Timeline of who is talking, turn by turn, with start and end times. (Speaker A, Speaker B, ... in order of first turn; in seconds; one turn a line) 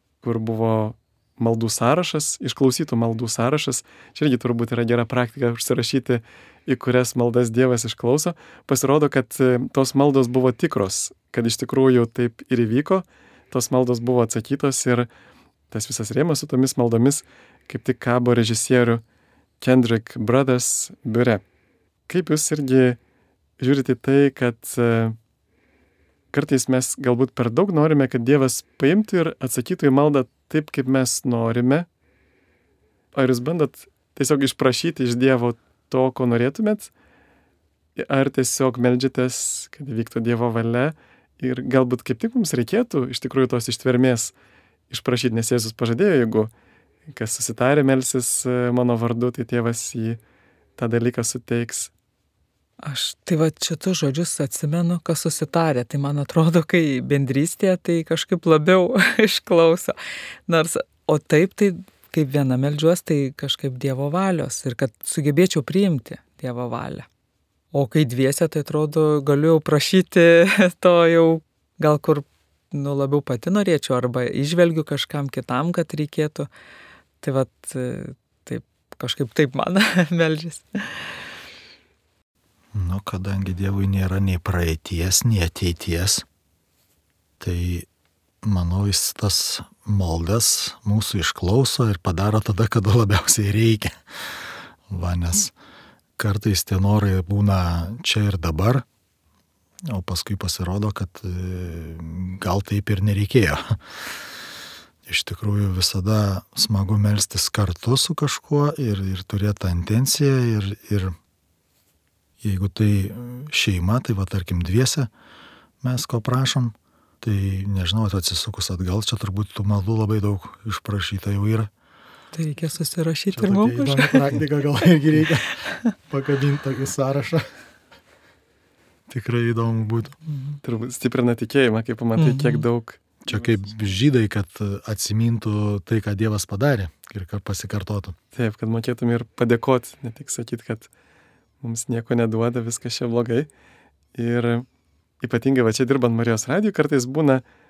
Speaker A: 0.2-15.1
Speaker A: 15.7-19.0
Speaker A: 19.6-21.4
Speaker A: 22.1-23.0
Speaker A: 23.6-25.2
Speaker A: 26.3-31.9
Speaker A: 33.1-36.9
Speaker A: 38.0-44.3
Speaker A: 44.9-46.5
Speaker A: 47.1-50.2
Speaker A: 50.8-51.9
Speaker B: 52.8-60.0
Speaker B: 60.5-67.1
Speaker B: 67.7-76.5
Speaker B: 77.2-81.2
Speaker C: 82.7-86.2
Speaker C: 87.4-87.9
Speaker C: 88.4-94.0
Speaker C: 94.9-95.5
Speaker C: 96.2-98.8
Speaker C: 99.9-104.0
Speaker C: 105.1-111.2
Speaker C: 112.4-115.1
Speaker C: 115.8-121.7
Speaker B: 122.3-124.4
Speaker C: 123.3-127.5
Speaker C: 129.1-130.2
Speaker B: 130.3-130.6
Speaker A: 130.6-133.9
Speaker B: 132.2-132.7
Speaker C: 133.2-138.2
Speaker A: 138.3-140.9
Speaker A: 141.6-143.5
Speaker A: 144.2-144.7
Speaker A: 145.2-147.4